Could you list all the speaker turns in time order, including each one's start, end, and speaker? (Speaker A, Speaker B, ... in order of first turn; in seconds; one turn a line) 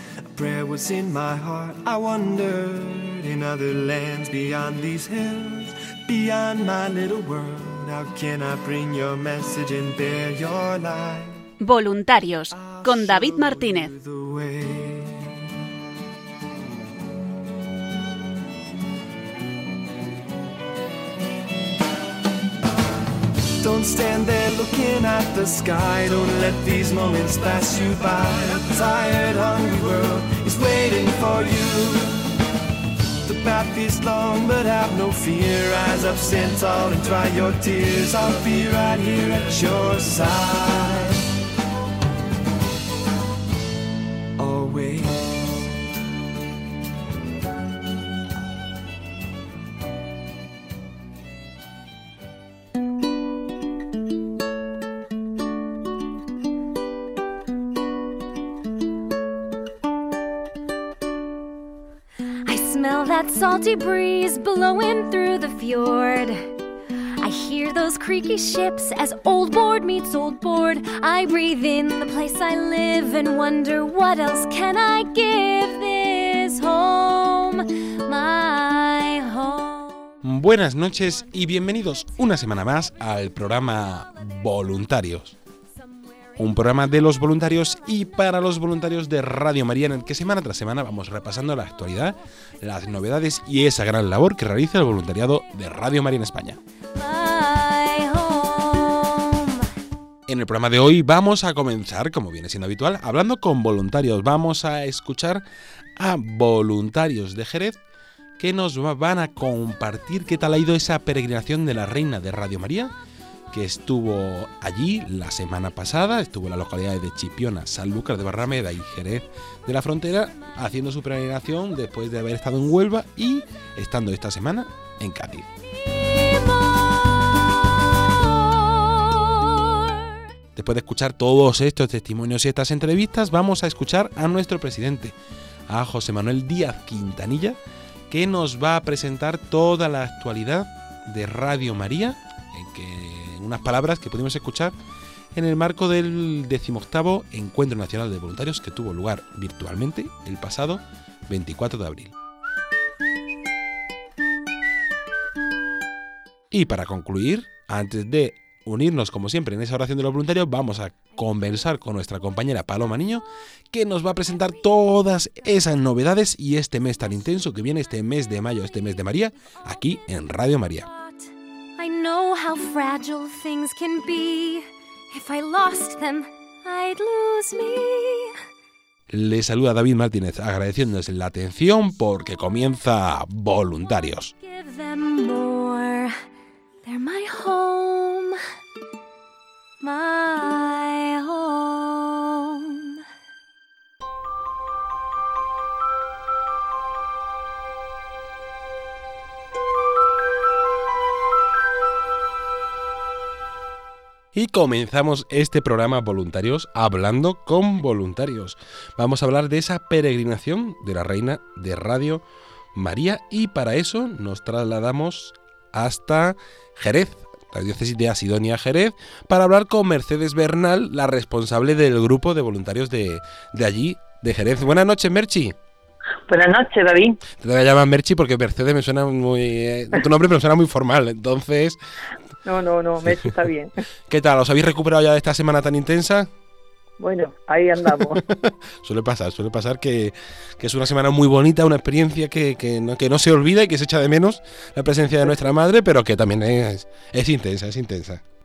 Speaker A: 0.3-11.4
Speaker B: 11.6-13.9
Speaker A: 12.5-15.2
Speaker A: 23.6-32.2
Speaker A: 33.2-41.2
Speaker A: 44.4-45.7
Speaker C: 62.5-66.5
Speaker C: 67.2-80.1
Speaker D: 80.2-85.3
Speaker D: 86.4-96.6
Speaker C: 97.0-99.7
Speaker D: 100.3-105.4
Speaker D: 106.0-107.8
Speaker D: 108.4-112.9
Speaker D: 113.5-125.5
Speaker C: 128.5-130.1
Speaker D: 130.6-135.1
Speaker D: 135.7-137.6
Speaker D: 138.1-144.7
Speaker D: 145.3-152.1
Speaker D: 156.5-170.9
Speaker C: 170.8-178.3
Speaker D: 179.1-184.3
Speaker C: 184.4-186.2
Speaker C: 186.8-188.4
Speaker C: 189.8-192.9
Speaker D: 204.3-212.2
Speaker D: 212.8-225.6
Speaker E: 226.3-227.2
Speaker D: 227.4-231.8
Speaker E: 232.4-233.7
Speaker D: 234.1-236.3
Speaker E: 237.0-238.2
Speaker D: 238.2-248.2